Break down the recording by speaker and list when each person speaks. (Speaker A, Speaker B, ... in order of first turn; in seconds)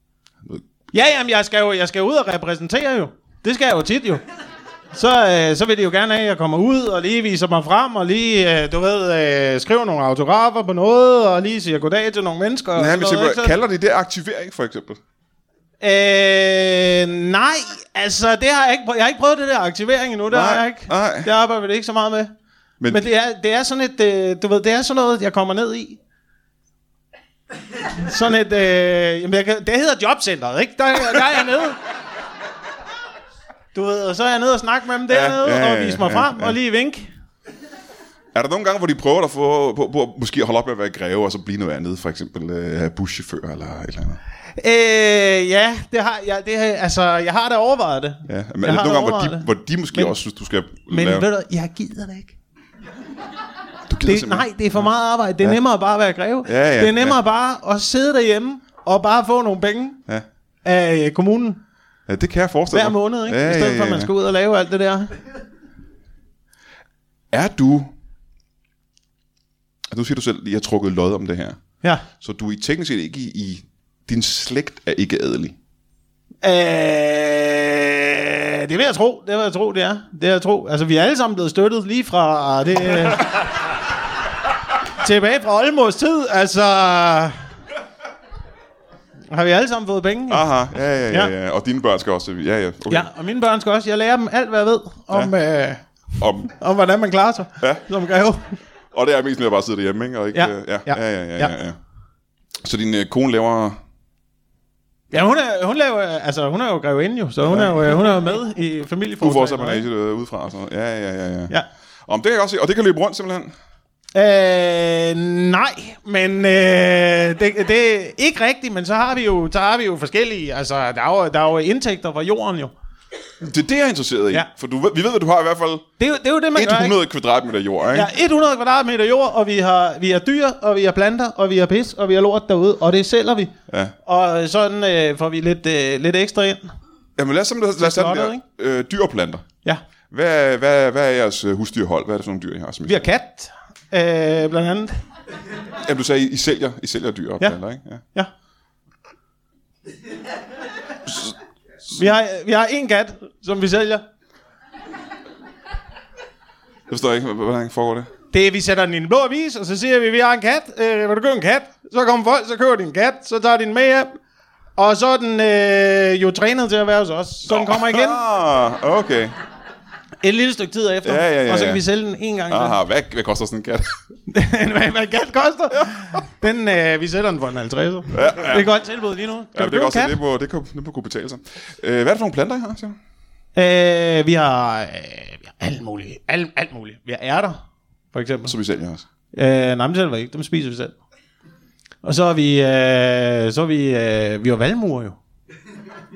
Speaker A: 0.9-4.2, 4.9-13.5, 15.8-22.3, 22.9-26.0, 28.0-31.8, 33.7-37.1, 44.6-50.1, 50.9-52.3, 54.0-60.0, 60.6-61.6, 62.7-65.1, 76.4-83.3, 85.0-87.4, 89.3-90.5, 92.9-95.8, 96.4-98.5, 100.3-101.5, 105.1-109.8, 114.1-122.7, 126.0-127.0, 127.9-133.5, 134.0-136.7, 137.8-138.4, 142.8-144.9, 151.9-154.0, 158.3-164.1, 164.8-168.2, 170.2-172.8, 174.3-180.2, 183.5-187.6, 188.1-188.5, 189.3-191.0, 192.0-195.2
Speaker B: 12.7-15.0, 20.3-21.3, 22.8-23.0, 35.1-36.6, 38.3-44.2, 48.3-51.3, 53.9-54.5, 56.4-57.2, 62.1-64.1, 67.3-67.9, 69.9-71.6, 72.1-75.5, 90.3-93.1, 96.2-96.5, 97.6-97.8, 98.9-101.8, 102.6-103.8, 107.5-107.8, 109.2-111.5, 112.0-113.5, 123.4-125.9, 126.5-128.1, 133.7-133.9, 137.2-139.4, 140.1-143.0, 145.8-148.0, 151.1-151.3, 156.9-158.1, 167.5-169.3, 171.0-171.8, 172.5-173.9, 178.1-178.7, 179.5-183.0, 188.4-189.1